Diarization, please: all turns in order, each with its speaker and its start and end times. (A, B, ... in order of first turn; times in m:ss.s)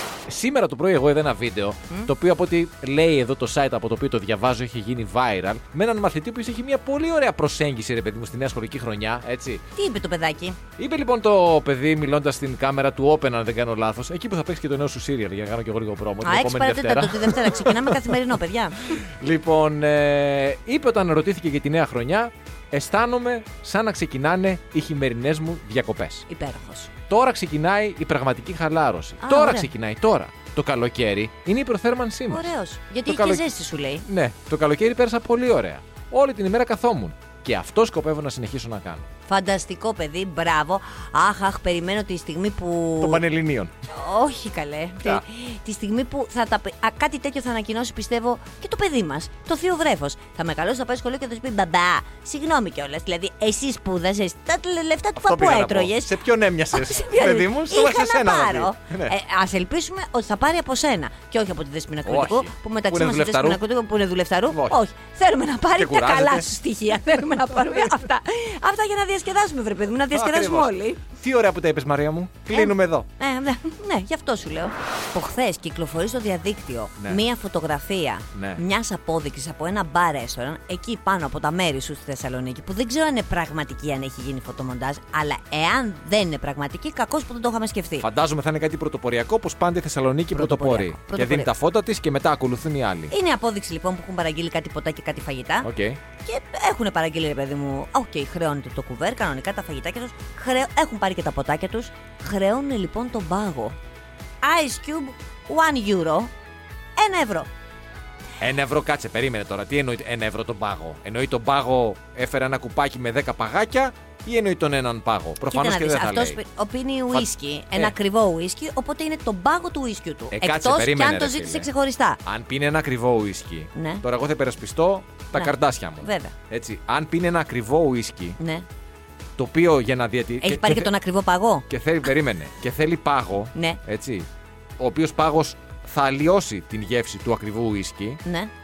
0:00.3-0:09.6 A
0:09.8-0:10.6 B
0:10.8-0:18.0 A
0:16.2-0:18.8 B
0:18.9-0:26.3 A
0:26.3-0:26.9 B
0:27.1-0:32.5 A
0:29.2-0:29.7 B
0:32.3-0:34.1 B
0:33.0-0:33.5 A
0:34.0-0:39.1 A
0:39.3-0:43.2 B
0:43.0-0:43.7 A
0:43.9-0:56.2 B
0:55.2-0:59.2 A
0:56.7-1:11.0 B
1:02.1-1:03.6 A
1:04.5-1:04.8 A
1:05.8-1:06.5 A
1:10.1-1:13.1 A
1:12.5-1:28.1 B
1:18.3-1:18.6 A
1:28.0-1:33.1 A
1:30.3-1:31.5 B
1:33.1-1:35.7 B
1:35.6-1:36.0 A
1:36.2-1:43.8 B
1:44.4-1:46.3 B
1:47.0-1:47.5 B
1:48.4-1:56.4 A
1:55.5-2:02.2 B
1:57.1-1:58.0 A
2:00.3-2:01.7 A
2:02.2-2:08.4 A
2:03.8-2:04.0 B
2:05.4-2:06.4 B
2:08.4-2:08.6 B
2:09.4-2:10.9 A
2:10.4-2:11.7 B
2:11.7-2:14.3 A
2:13.6-2:13.8 B
2:14.8-2:18.2 A
2:18.2-2:18.5 B